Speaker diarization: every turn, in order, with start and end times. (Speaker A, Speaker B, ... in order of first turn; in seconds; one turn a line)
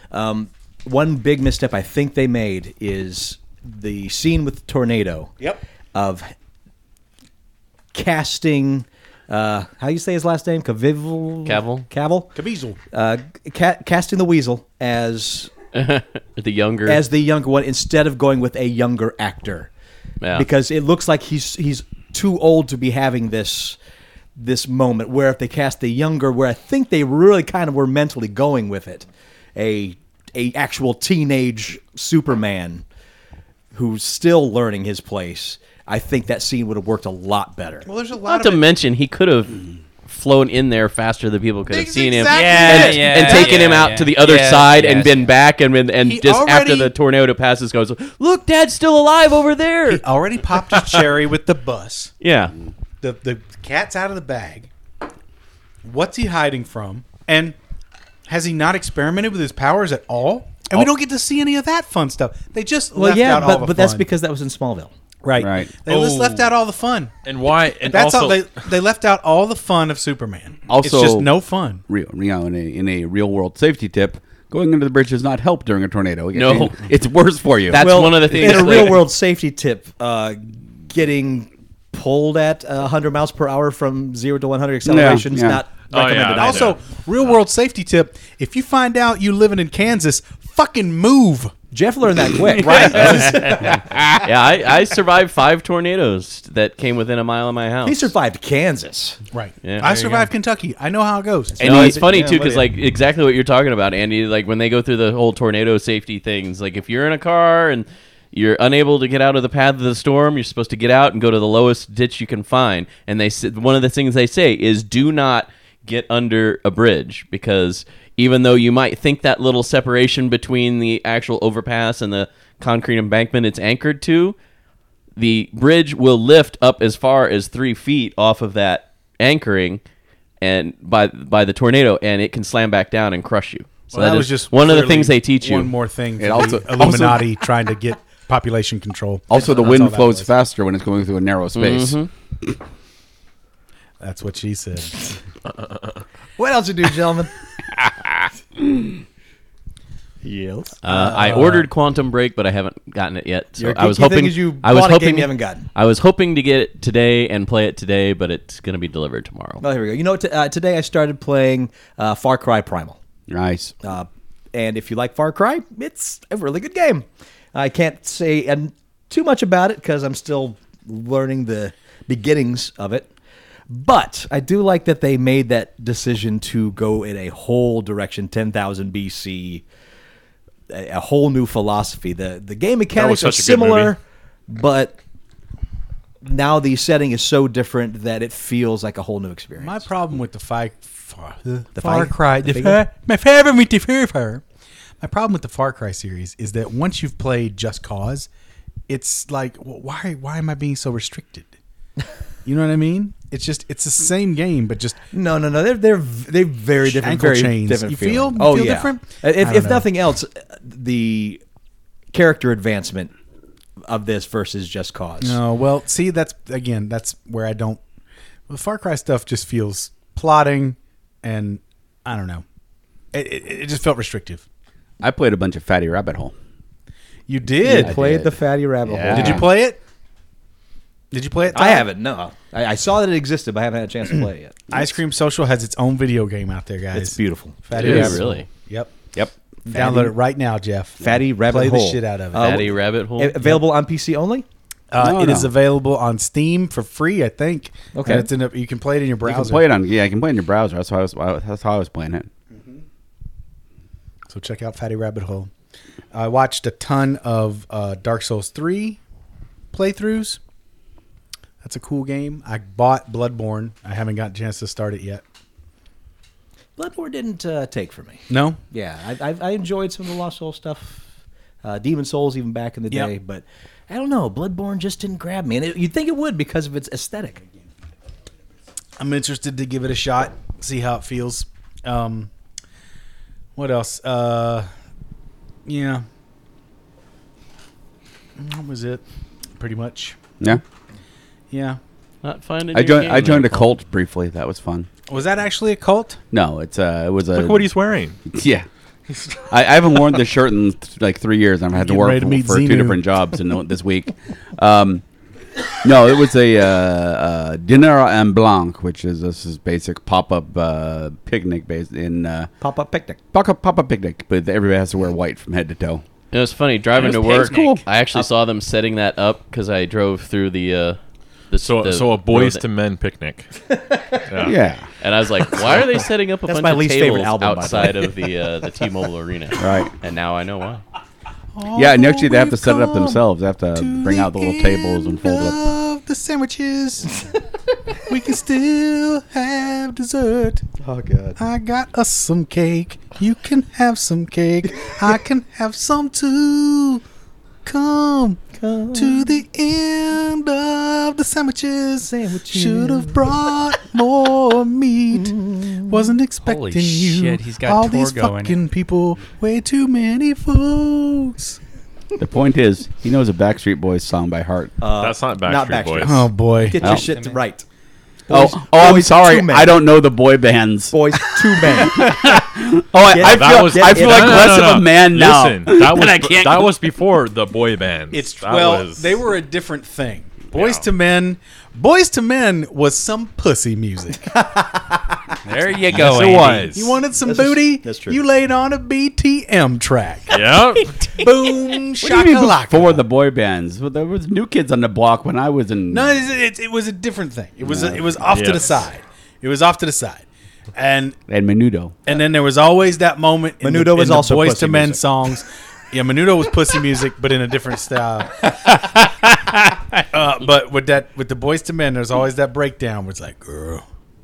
Speaker A: 0.1-5.3
Speaker A: 5.9-6.3
Speaker A: 7.9-12.3
Speaker B: 11.4-11.9
Speaker C: 12.3-12.8
Speaker A: 12.9-15.5
Speaker B: 15.7-17.0
Speaker A: 16.9-19.7
Speaker B: 20.2-20.5
Speaker A: 20.3-23.8
Speaker A: 24.4-32.8
Speaker A: 33.7-37.9
Speaker C: 37.9-38.6
Speaker B: 38.2-50.0
Speaker C: 41.7-43.8
Speaker D: 42.3-45.3
Speaker C: 46.0-46.9
Speaker C: 49.9-52.1
Speaker B: 52.2-52.5
Speaker C: 53.0-54.7
Speaker C: 55.9-57.6
Speaker C: 58.3-64.1
Speaker A: 63.0-64.9
Speaker C: 65.2-67.1
Speaker E: 65.4-65.7
Speaker F: 65.9-66.2
Speaker F: 67.2-68.5
Speaker C: 67.8-71.8
Speaker E: 70.7-71.3
Speaker E: 71.9-77.9
Speaker B: 76.3-76.8
Speaker B: 77.7-79.1
Speaker A: 77.7-86.7
Speaker E: 84.8-85.6
Speaker F: 85.9-86.9
Speaker C: 86.2-91.5
Speaker A: 91.7-93.8
Speaker C: 92.6-93.6
Speaker B: 92.7-98.1
Speaker A: 97.8-99.2
Speaker C: 99.3-102.0
Speaker B: 99.6-100.2
Speaker A: 101.5-102.7
Speaker B: 101.6-124.4
Speaker B: 125.2-129.8
Speaker B: 130.4-135.7
Speaker C: 133.9-140.3
Speaker E: 136.2-137.4
Speaker E: 139.3-142.0
Speaker B: 141.6-142.1
Speaker C: 144.0-145.2
Speaker A: 146.4-147.3
Speaker A: 150.2-150.8
Speaker B: 150.8-159.6
Speaker C: 150.9-151.7
Speaker A: 153.6-155.7
Speaker A: 159.6-163.0
Speaker E: 163.3-163.7
Speaker A: 163.8-173.1
Speaker A: 173.7-179.7
Speaker A: 180.7-185.0
Speaker F: 182.9-183.9
Speaker A: 186.2-189.9
Speaker C: 189.6-194.4
Speaker A: 191.8-192.8
Speaker C: 195.0-198.3
Speaker C: 198.9-201.5
Speaker C: 202.4-205.0
Speaker A: 205.1-211.4
Speaker C: 206.8-209.9
Speaker A: 212.1-213.1
Speaker A: 213.8-215.4
Speaker C: 215.2-217.8
Speaker C: 218.5-222.4
Speaker C: 223.1-224.4
Speaker E: 225.0-226.3
Speaker C: 227.3-228.0
Speaker A: 227.6-229.5
Speaker E: 227.7-229.5
Speaker C: 229.1-229.8
Speaker C: 231.1-231.9
Speaker A: 231.5-234.8
Speaker C: 234.7-238.9
Speaker A: 236.9-238.2
Speaker B: 237.7-238.5
Speaker E: 237.8-238.2
Speaker C: 239.7-242.7
Speaker A: 239.7-240.1
Speaker A: 241.0-244.5
Speaker B: 242.3-243.4
Speaker C: 244.9-249.7
Speaker E: 245.0-245.5
Speaker A: 247.9-248.3
Speaker E: 249.2-252.3
Speaker C: 252.5-252.8
Speaker C: 254.3-255.5
Speaker C: 256.1-259.0
Speaker C: 259.7-260.4
Speaker C: 261.6-265.2
Speaker A: 266.8-271.0
Speaker C: 268.3-268.6
Speaker A: 271.6-277.4
Speaker C: 279.0-282.3
Speaker C: 283.6-284.7
Speaker C: 285.7-286.1
Speaker C: 288.4-289.0
Speaker C: 289.6-290.2
Speaker C: 291.5-291.8
Speaker B: 292.2-293.7
Speaker E: 292.7-294.9
Speaker C: 295.1-296.2
Speaker E: 296.3-297.7
Speaker F: 297.3-298.2
Speaker E: 298.3-298.7
Speaker E: 299.5-305.0
Speaker C: 301.7-303.0
Speaker E: 305.8-312.5
Speaker A: 312.6-313.2
Speaker E: 313.3-316.0
Speaker B: 316.3-321.0
Speaker D: 317.0-317.8
Speaker E: 317.2-317.8
Speaker B: 321.5-322.6
Speaker F: 321.6-323.5
Speaker A: 323.9-324.2
Speaker F: 324.3-324.6
Speaker E: 324.4-324.9
Speaker B: 325.0-330.8
Speaker A: 326.5-328.2
Speaker E: 329.6-329.9
Speaker C: 331.6-333.2
Speaker E: 331.8-335.6
Speaker C: 333.8-337.3
Speaker C: 338.1-340.6
Speaker A: 340.8-341.4
Speaker C: 341.4-347.0
Speaker C: 347.6-361.6
Speaker A: 348.5-349.3
Speaker A: 352.0-353.3
Speaker A: 355.2-356.0
Speaker D: 356.4-358.6
Speaker E: 362.2-364.7
Speaker A: 364.8-367.6
Speaker F: 365.0-366.3
Speaker C: 366.0-366.8
Speaker E: 366.8-367.1
Speaker D: 366.9-367.4
Speaker A: 368.3-369.8
Speaker E: 368.3-376.8
Speaker A: 370.9-372.2
Speaker A: 373.1-374.7
Speaker F: 373.2-379.2
Speaker C: 378.1-384.4
Speaker F: 380.5-380.9
Speaker A: 384.3-385.0
Speaker D: 385.4-386.7
Speaker F: 385.9-387.0
Speaker C: 386.7-390.5
Speaker A: 387.2-388.2
Speaker F: 390.3-390.9
Speaker D: 390.8-391.2
Speaker C: 391.1-393.0
Speaker E: 392.0-396.2
Speaker C: 395.9-401.2
Speaker E: 397.6-398.1
Speaker F: 398.3-398.7
Speaker E: 401.3-402.0
Speaker C: 402.1-409.4
Speaker A: 403.6-405.0
Speaker C: 410.0-413.8